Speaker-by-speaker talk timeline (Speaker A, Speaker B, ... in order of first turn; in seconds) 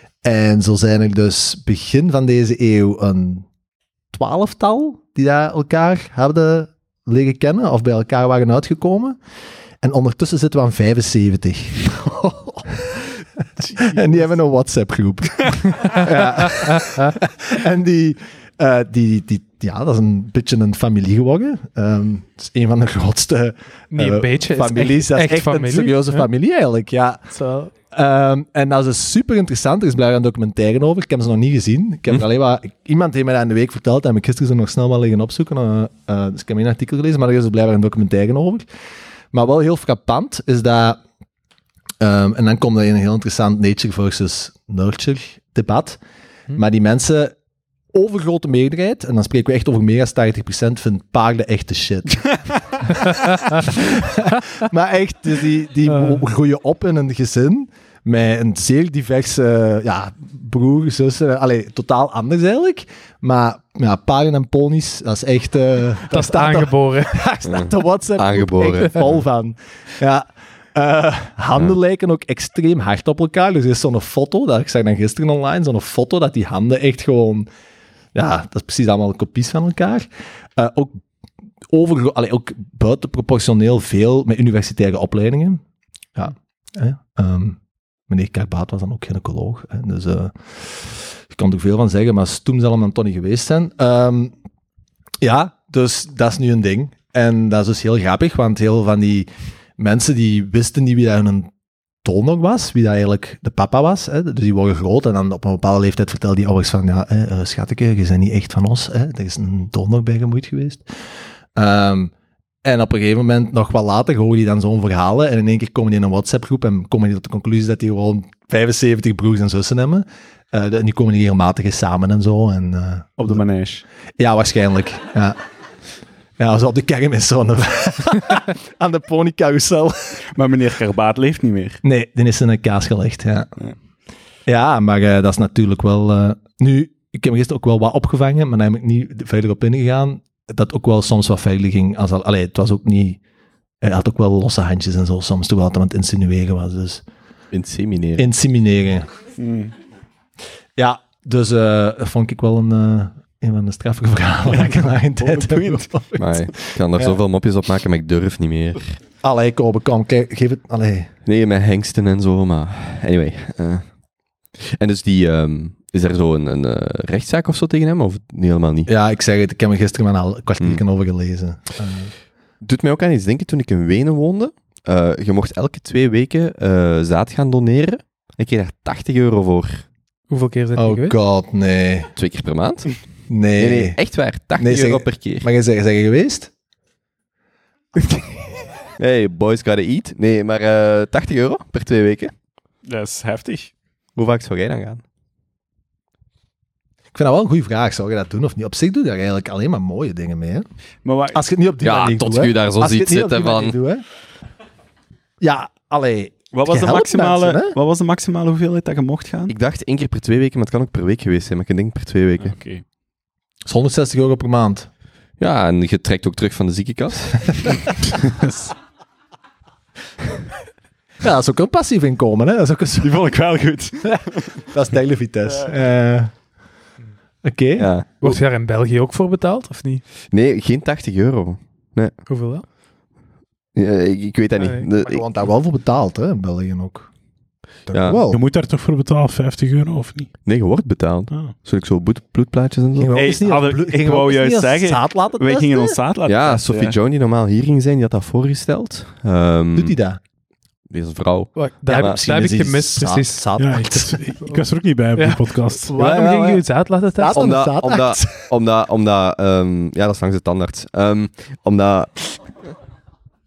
Speaker A: 0.2-3.5, 4.1-9.2, 9.8-13.1, 13.7-27.3, 27.9-38.6, 39.3-41.0, 42.0-46.0, 46.5-47.4, 47.9-52.3, 52.9-77.5, 78.1-81.0, 81.7-85.6, 86.1-94.3, 95.2-101.5, 102.0-110.8, 111.5-112.1, 112.6-123.4, 124.2-125.4, 126.4-130.2, 131.8-133.5, 134.4-143.2, 143.8-147.0, 148.2-149.1, 150.8-157.2, 159.2-161.1, 168.9-172.1, 180.8-182.1, 183.3-184.0, 184.6-186.5, 197.1-200.7, 201.3-204.0, 205.4-207.8, 213.7-214.9, 221.2-223.2, 224.0-226.3, 227.4-227.9, 234.9-237.1, 237.8-238.4, 243.0-246.0, 249.7-250.2, 251.9-254.3, 255.9-256.6, 257.1-258.5
Speaker B: 23.9-26.2, 27.3-27.7, 66.1-67.1, 180.3-181.2, 228.2-230.0, 232.3-232.6, 234.6-234.8, 251.6-253.5, 255.2-257.5
Speaker C: 67.5-69.2, 147.5-148.2, 156.2-158.9, 161.2-163.9, 164.5-168.9, 172.6-179.8, 182.1-182.9, 183.6-185.5, 189.0-192.3, 194.2-195.0, 201.8-203.8, 209.5-212.6, 215.4-217.9, 227.8-228.4, 230.3-232.1, 233.7-235.2, 237.9-238.2, 240.4-243.2, 246.2-249.9, 250.9-252.2, 257.3-262.4
Speaker D: 123.2-123.8, 130.3-131.8, 149.4-149.7, 154.5-155.9, 192.8-193.7, 201.0-201.4, 206.5-209.5, 212.4-212.8, 223.0-224.6, 243.1-246.9
Speaker E: 238.3-240.3, 253.6-255.9